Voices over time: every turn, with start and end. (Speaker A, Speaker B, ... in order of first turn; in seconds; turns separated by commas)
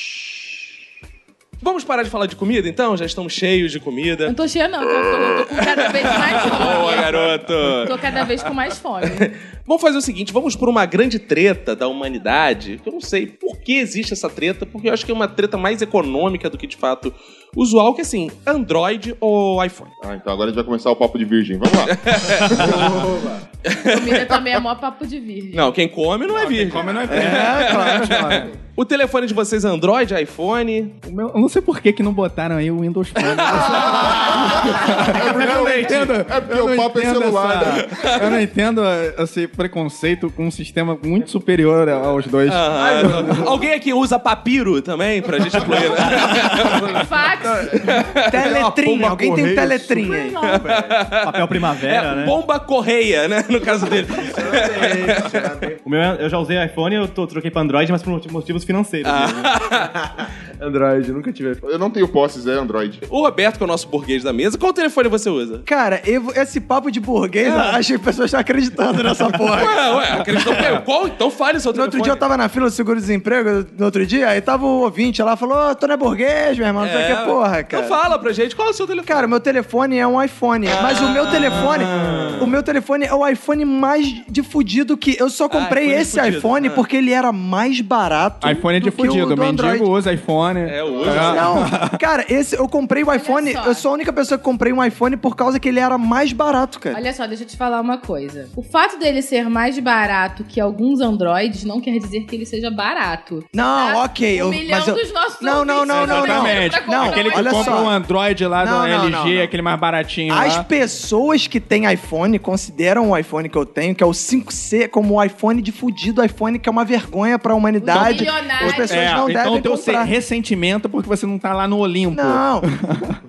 Speaker A: 1.6-4.3, Speaker B: 4.3-9.3, Speaker A: 5.7-8.0, Speaker A: 9.0-19.9, Speaker C: 20.0-22.9, Speaker A: 21.9-22.7, Speaker D: 22.6-23.4, Speaker A: 23.7-24.4, Speaker B: 23.8-25.7, Speaker A: 25.5-30.9, Speaker E: 26.3-28.5, Speaker F: 27.1-28.5, Speaker E: 31.0-42.8, Speaker A: 33.2-34.2, Speaker C: 33.8-38.1, Speaker A: 37.9-38.3, Speaker A: 42.5-47.1, Speaker D: 42.8-43.6, Speaker B: 46.9-47.9, Speaker A: 47.8-48.4, Speaker F: 48.3-50.4, Speaker D: 48.3-51.0, Speaker A: 50.4-55.4, Speaker G: 51.2-52.4, Speaker D: 54.1-55.8, Speaker G: 55.8-59.5, Speaker A: 59.0-59.9, Speaker D: 60.0-61.6, Speaker C: 61.6-63.0, Speaker A: 63.1-65.7, Speaker F: 65.7-70.8, Speaker A: 67.5-67.8, Speaker A: 69.5-72.2, Speaker F: 71.7-78.0, Speaker A: 76.8-79.3, Speaker F: 79.1-89.9, Speaker A: 80.8-82.5, Speaker A: 85.5-86.8, Speaker E: 88.4-92.0, Speaker A: 90.6-91.5, Speaker C: 90.9-91.4, Speaker F: 91.0-97.0, Speaker B: 93.1-93.8, Speaker B: 96.9-107.9, Speaker F: 103.5-108.0, Speaker E: 105.9-110.6, Speaker F: 108.6-109.5, Speaker F: 110.3-120.1, Speaker B: 117.8-119.3, Speaker E: 117.9-123.2, Speaker F: 122.1-122.7